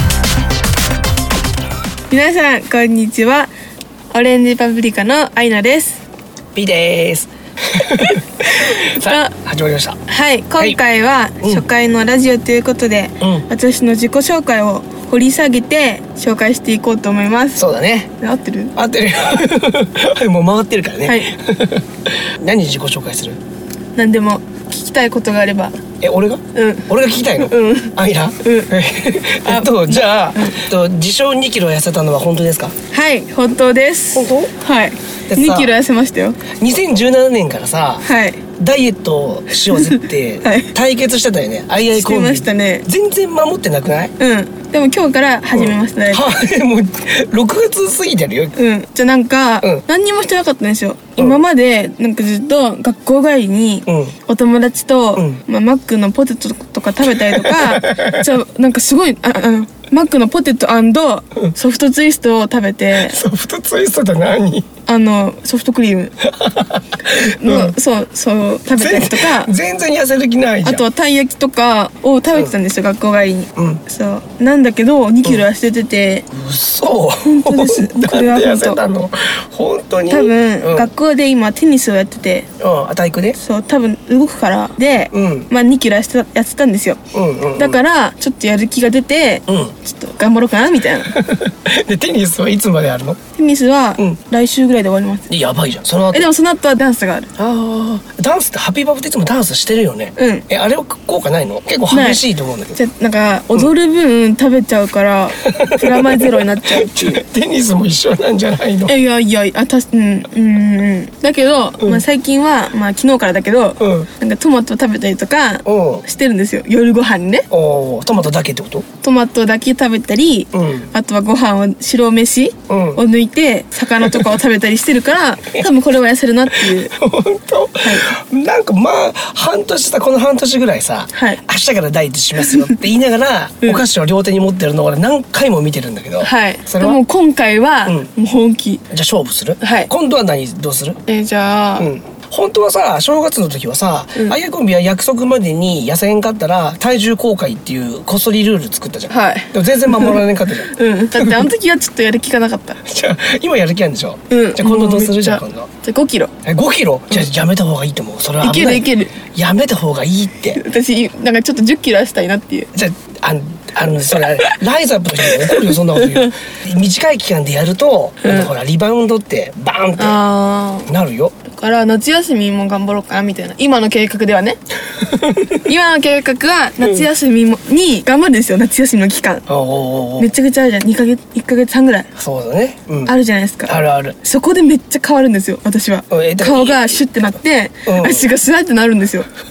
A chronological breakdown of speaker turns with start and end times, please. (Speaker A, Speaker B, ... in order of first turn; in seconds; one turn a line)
Speaker A: 2.1-3.5
Speaker A: 4.1-6.0
Speaker B: 6.5-10.0
Speaker A: 7.9-9.3
Speaker A: 10.1-18.8
Speaker B: 11.4-11.7
Speaker B: 17.6-18.1
Speaker B: 18.8-23.4
Speaker A: 21.0-21.3
Speaker A: 23.9-25.8
Speaker B: 26.0-32.7
Speaker A: 26.5-28.7
Speaker A: 29.4-30.6
Speaker A: 32.9-36.4
Speaker B: 34.1-34.5
Speaker B: 35.3-35.7
Speaker B: 36.5-38.1
Speaker A: 38.0-38.4
Speaker B: 38.6-44.1
Speaker A: 39.7-40.7
Speaker A: 41.9-42.9
Speaker A: 44.2-46.3
Speaker B: 45.5-48.6
Speaker A: 48.6-63.2
Speaker B: 53.9-54.1
Speaker B: 55.2-55.4
Speaker B: 57.1-58.3
Speaker B: 62.9-64.7
Speaker A: 64.9-66.1
Speaker B: 66.2-67.8
Speaker A: 67.1-69.5
Speaker B: 68.7-70.8
Speaker A: 70.6-76.3
Speaker B: 73.6-73.8
Speaker B: 76.3-80.9
Speaker A: 77.2-78.8
Speaker A: 80.1-82.5
Speaker B: 82.6-83.4
Speaker A: 83.3-87.0
Speaker B: 85.1-85.5
Speaker B: 87.1-87.8
Speaker A: 87.6-91.2
Speaker B: 89.5-89.7
Speaker B: 91.1-93.2
Speaker A: 93.3-95.3
Speaker B: 95.3-96.3
Speaker A: 96.1-97.3
Speaker B: 97.4-102.8
Speaker A: 100.2-100.5
Speaker A: 101.9-102.2
Speaker A: 102.7-107.2
Speaker B: 105.4-109.0
Speaker A: 108.9-117.5
Speaker B: 111.8-112.0
Speaker B: 113.8-114.1
Speaker B: 115.7-116.0
Speaker B: 117.5-118.8
Speaker A: 119.0-126.9
Speaker B: 120.5-120.9
Speaker B: 122.7-123.0
Speaker B: 126.6-137.0
Speaker A: 131.1-131.4
Speaker A: 132.4-132.8
Speaker A: 136.2-138.8
Speaker B: 138.9-141.0
Speaker A: 139.6-139.9
Speaker A: 141.1-141.9
Speaker B: 141.8-151.5
Speaker A: 149.1-152.8
Speaker B: 152.8-155.7
Speaker A: 154.3-156.3
Speaker B: 156.4-160.6
Speaker A: 158.4-159.2
Speaker A: 160.5-162.7
Speaker B: 162.7-170.2
Speaker A: 165.5-166.3
Speaker A: 168.2-168.5
Speaker A: 170.0-170.9
Speaker B: 170.9-171.3
Speaker A: 171.4-174.6
Speaker B: 175.0-175.6
Speaker A: 175.5-179.5
Speaker B: 176.8-177.1
Speaker B: 179.5-180.3
Speaker A: 180.2-182.1
Speaker B: 182.2-183.1
Speaker A: 183.1-189.3
Speaker B: 183.7-184.2
Speaker B: 186.1-187.0
Speaker B: 187.9-188.3